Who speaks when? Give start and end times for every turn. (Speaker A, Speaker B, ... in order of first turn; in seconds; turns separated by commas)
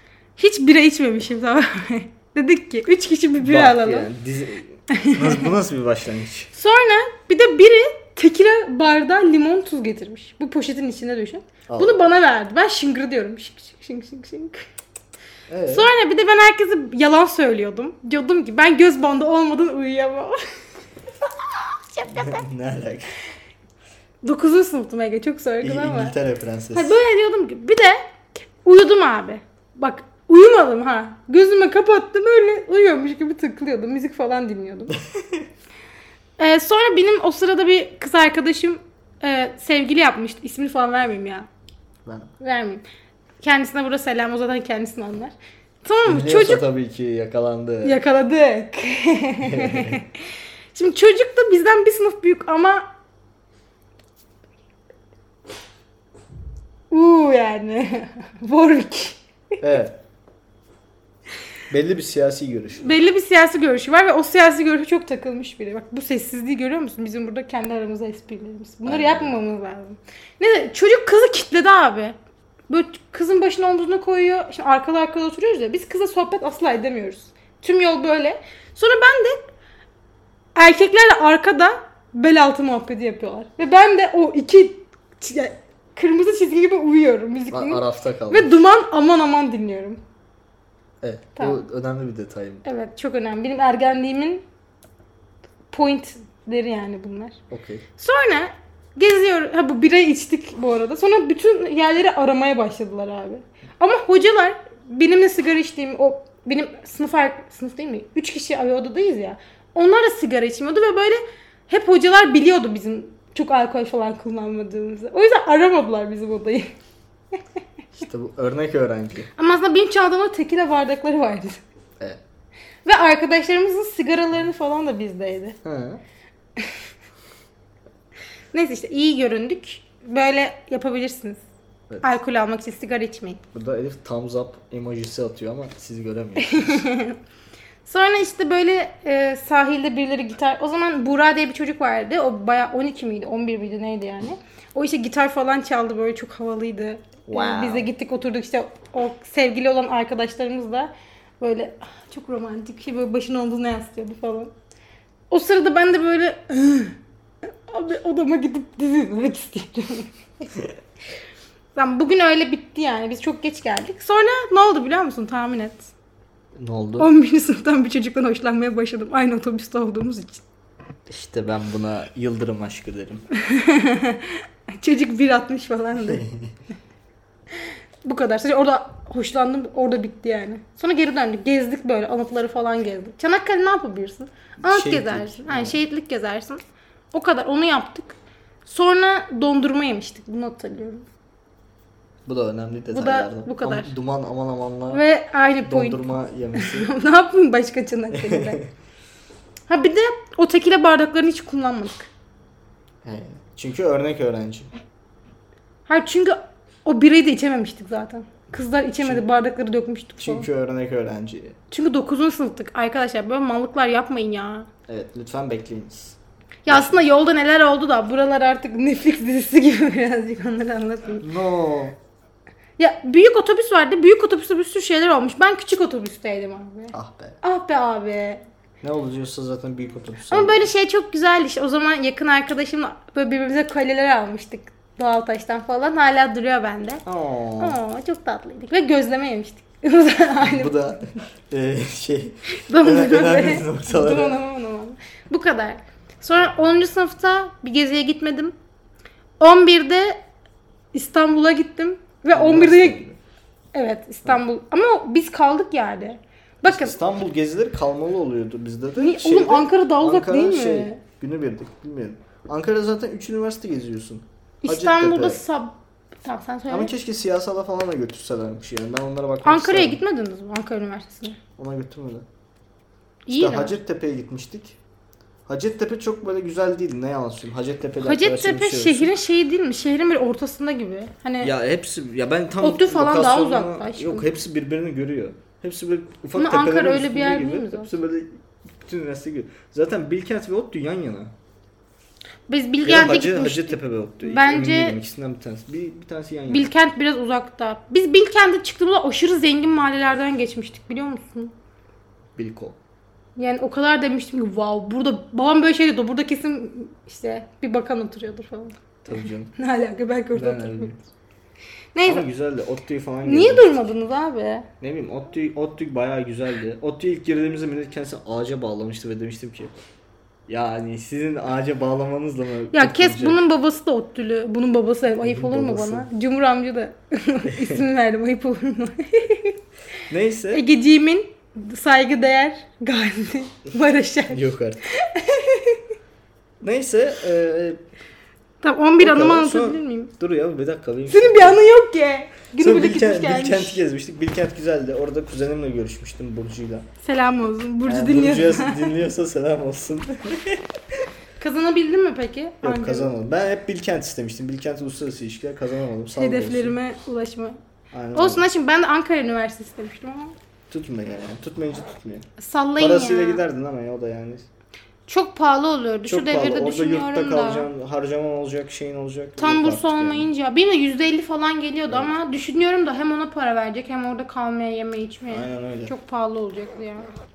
Speaker A: 0.4-4.1, Speaker B: 3.4-6.5, Speaker A: 4.9-5.5, Speaker A: 6.5-14.6, Speaker B: 11.7-12.0, Speaker B: 15.5-15.9, Speaker A: 15.7-20.4, Speaker A: 21.2-22.4, Speaker B: 22.1-23.1, Speaker A: 24.2-26.1, Speaker B: 25.6-27.0, Speaker A: 26.7-28.1, Speaker A: 28.6-34.9, Speaker A: 36.4-41.5, Speaker B: 42.0-42.3, Speaker A: 42.4-42.8, Speaker A: 43.4-46.6, Speaker B: 46.0-48.0, Speaker A: 47.8-52.9, Speaker B: 49.4-50.0, Speaker A: 56.9-59.2, Speaker B: 59.6-60.0, Speaker B: 61.7-62.9, Speaker A: 62.8-72.2, Speaker B: 68.8-69.4, Speaker A: 72.7-79.4, Speaker A: 80.5-90.0, Speaker B: 87.5-88.5, Speaker B: 91.0-92.6, Speaker A: 91.3-91.6, Speaker A: 92.6-94.4, Speaker A: 95.7-97.4, Speaker B: 97.5-97.8, Speaker A: 98.0-116.7, Speaker B: 118.0-119.3, Speaker A: 119.4-121.6, Speaker A: 122.8-125.6, Speaker B: 125.6-126.0, Speaker A: 128.5-131.4, Speaker A: 132.0-133.4, Speaker B: 133.5-136.8, Speaker A: 136.4-137.2, Speaker A: 137.8-154.5, Speaker B: 147.2-147.9, Speaker A: 155.3-160.1, Speaker A: 161.7-165.9, Speaker B: 166.6-167.1, Speaker A: 167.0-170.4, Speaker B: 171.1-173.2, Speaker A: 173.3-176.2, Speaker B: 176.0-176.5, Speaker A: 177.5-186.6, Speaker B: 184.6-185.8, Speaker A: 187.1-191.1, Speaker B: 192.3-195.0, Speaker A: 192.9-193.9, Speaker A: 194.9-196.0, Speaker B: 195.7-196.9, Speaker A: 196.5-198.6, Speaker B: 198.1-198.7, Speaker A: 199.7-202.1, Speaker B: 203.0-204.7, Speaker A: 205.9-210.5, Speaker B: 210.2-211.6, Speaker A: 211.7-214.7, Speaker B: 214.9-217.0, Speaker A: 216.6-221.2, Speaker B: 221.2-222.0, Speaker A: 222.8-228.4, Speaker B: 226.9-227.4, Speaker B: 228.8-230.7, Speaker A: 230.3-237.0, Speaker B: 237.0-237.8, Speaker A: 237.6-240.7, Speaker B: 240.4-244.4, Speaker A: 242.6-248.5, Speaker A: 249.4-250.2, Speaker A: 250.9-253.0, Speaker B: 252.3-253.2, Speaker A: 253.7-257.0, Speaker B: 256.6-265.4, Speaker A: 259.0-261.0, Speaker A: 264.6-266.9, Speaker B: 266.7-270.0, Speaker A: 269.4-271.4, Speaker B: 271.6-272.2, Speaker A: 273.3-273.8, Speaker B: 273.3-274.8, Speaker B: 275.4-279.1, Speaker A: 278.0-281.5, Speaker B: 281.4-291.3, Speaker A: 282.6-284.3, Speaker A: 286.3-287.9, Speaker A: 292.5-295.0, Speaker B: 292.8-296.7, Speaker A: 296.5-301.5, Speaker B: 302.4-302.8, Speaker A: 303.4-308.8, Speaker B: 309.0-309.5, Speaker A: 309.5-310.9, Speaker B: 310.3-311.0, Speaker A: 311.9-312.3, Speaker B: 312.0-313.9, Speaker A: 313.2-314.7, Speaker B: 314.8-319.7, Speaker B: 320.5-323.4, Speaker A: 322.7-329.6, Speaker B: 325.2-326.1, Speaker B: 327.4-327.8, Speaker B: 330.1-330.6, Speaker A: 330.5-335.8, Speaker B: 334.3-334.8, Speaker B: 336.6-337.8, Speaker A: 338.6-340.1, Speaker B: 339.0-341.6, Speaker A: 341.1-343.8, Speaker B: 342.6-346.9, Speaker A: 347.0-348.9, Speaker B: 347.9-350.6, Speaker A: 351.4-353.1, Speaker B: 352.6-356.8, Speaker A: 356.1-357.6, Speaker B: 357.9-358.4, Speaker A: 358.1-360.4, Speaker B: 360.7-362.3, Speaker A: 362.4-363.4, Speaker B: 362.8-364.4, Speaker A: 365.1-367.7, Speaker B: 366.1-370.3, Speaker A: 369.4-377.1, Speaker B: 375.3-375.9